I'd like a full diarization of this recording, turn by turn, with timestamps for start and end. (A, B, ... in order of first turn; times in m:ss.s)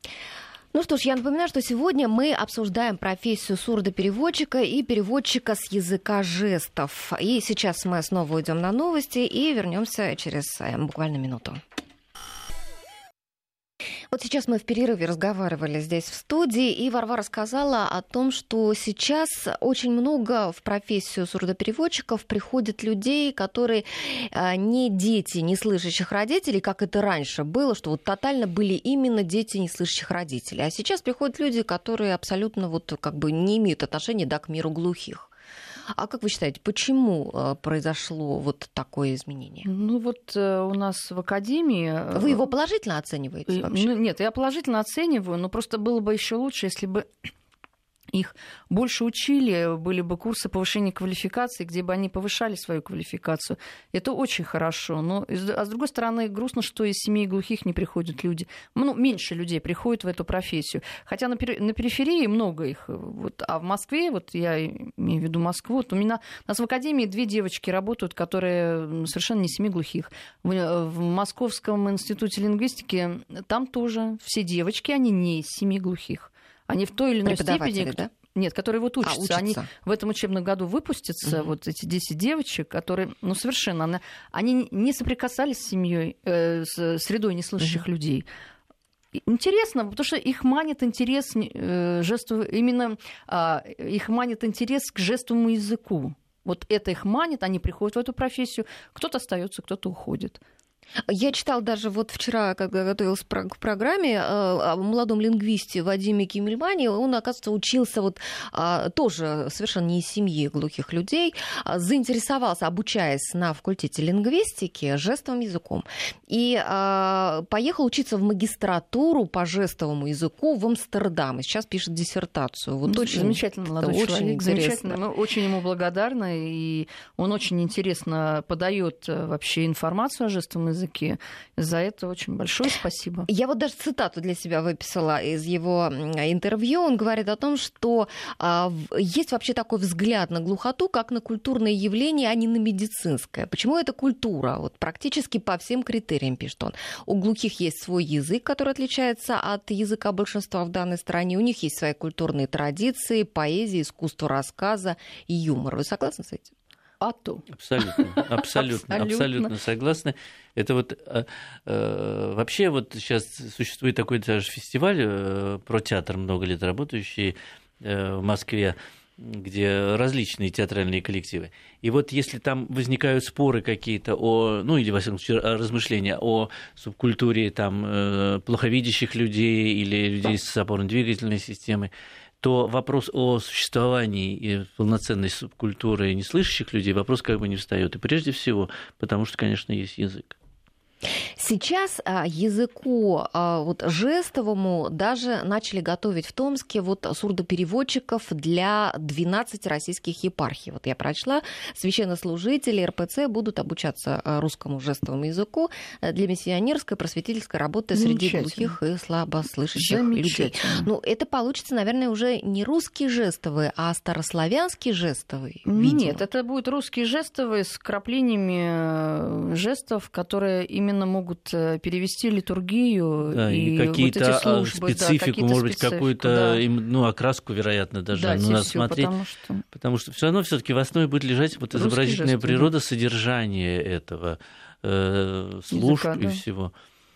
0:00.7-0:11.6 A
0:14.1-0:35.3 A
0:36.0-0:39.7 A
0:39.6-0:42.4 B
0:42.1-0:43.9 A
0:43.5-0:47.3 B
0:48.1-1:28.3 B
1:17.2-1:18.1 A
1:19.0-1:19.7 A
1:29.2-1:40.4 B
1:41.1-2:05.0 A
2:02.9-2:13.3 B
2:13.3-2:36.5 A
2:37.0-2:39.5 B
2:37.5-3:01.9 C
3:02.4-3:10.4 C
3:11.4-3:36.2 A
3:28.0-3:28.8 B
3:29.8-3:30.9 B
3:35.7-3:46.6 B
3:43.3-3:49.2 C
3:48.1-3:49.6 B
3:49.7-3:56.7 C
3:51.7-3:52.7 B
3:55.7-3:56.4 B